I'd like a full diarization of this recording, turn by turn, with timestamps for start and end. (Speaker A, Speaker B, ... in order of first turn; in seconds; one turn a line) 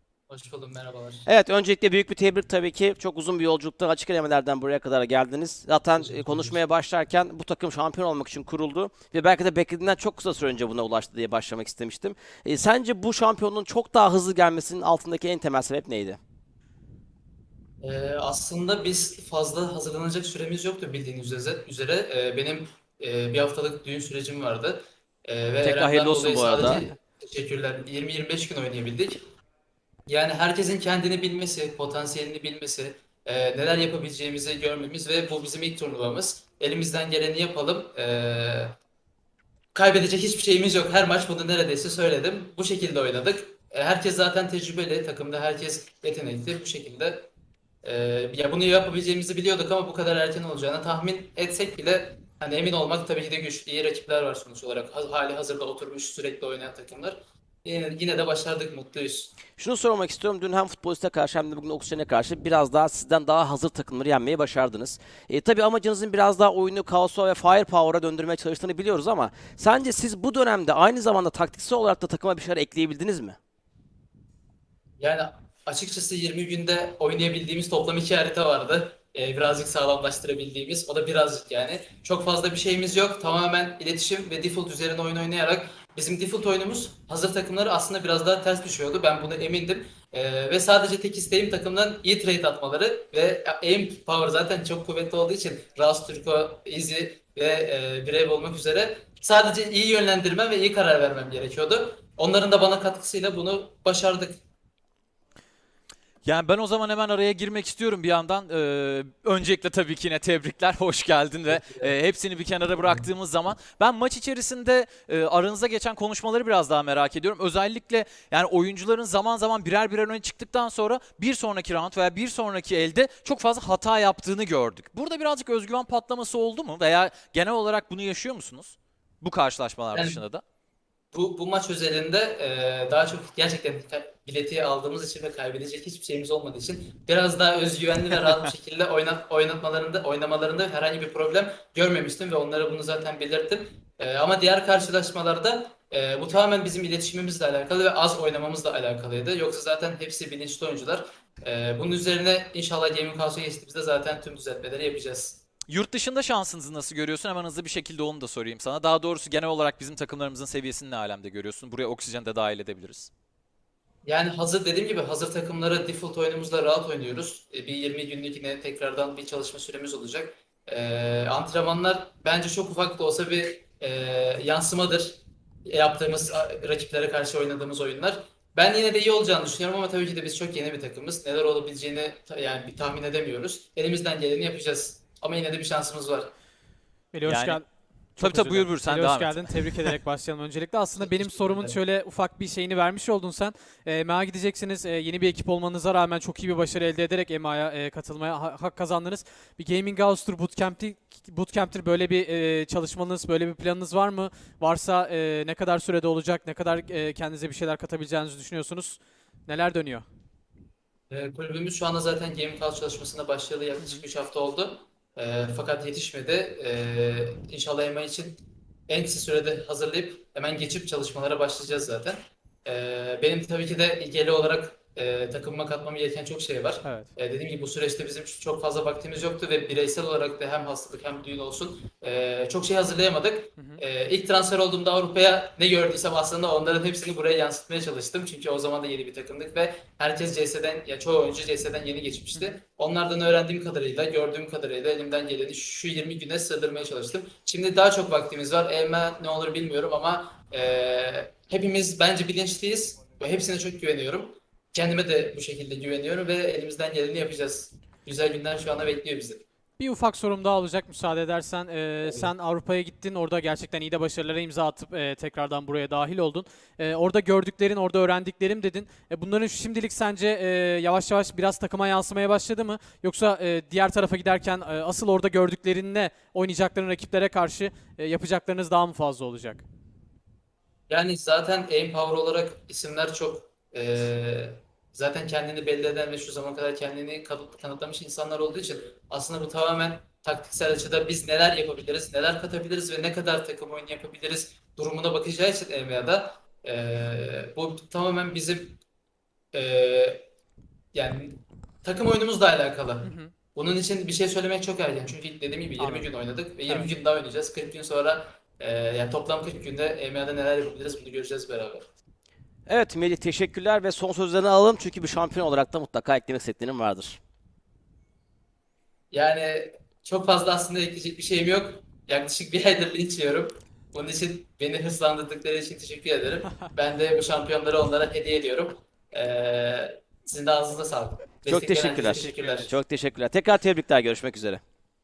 Speaker A: 0.3-1.3
Speaker B: 1.2-16.2
Speaker A: 6.0-6.6
Speaker A: 17.8-29.2
Speaker B: 25.6-26.8
Speaker A: 30.1-38.8
Speaker A: 39.7-47.2
Speaker A: 47.8-59.3
Speaker B: 59.5-73.4
Speaker A: 75.0-104.4
Speaker C: 106.2-130.4
Speaker A: 111.5-111.9
Speaker A: 129.9-130.2
Speaker A: 131.1-155.4
Speaker C: 155.7-163.1
Speaker A: 164.0-186.3
Speaker D: 187.1-210.1
Speaker C: 187.2-187.6
Speaker C: 188.2-189.9
Speaker A: 191.0-191.8
Speaker A: 211.1-259.4
Speaker D: 226.8-227.1
Speaker D: 259.8-279.6
Speaker A: 280.9-298.8
Speaker A: 299.5-300.3
Speaker A: 300.9-311.9
Speaker D: 303.0-303.3
Speaker D: 305.8-306.1
Speaker B: 312.7-317.2
Speaker A: 319.1-332.8
Speaker B: 331.5-334.6
Speaker D: 332.2-332.6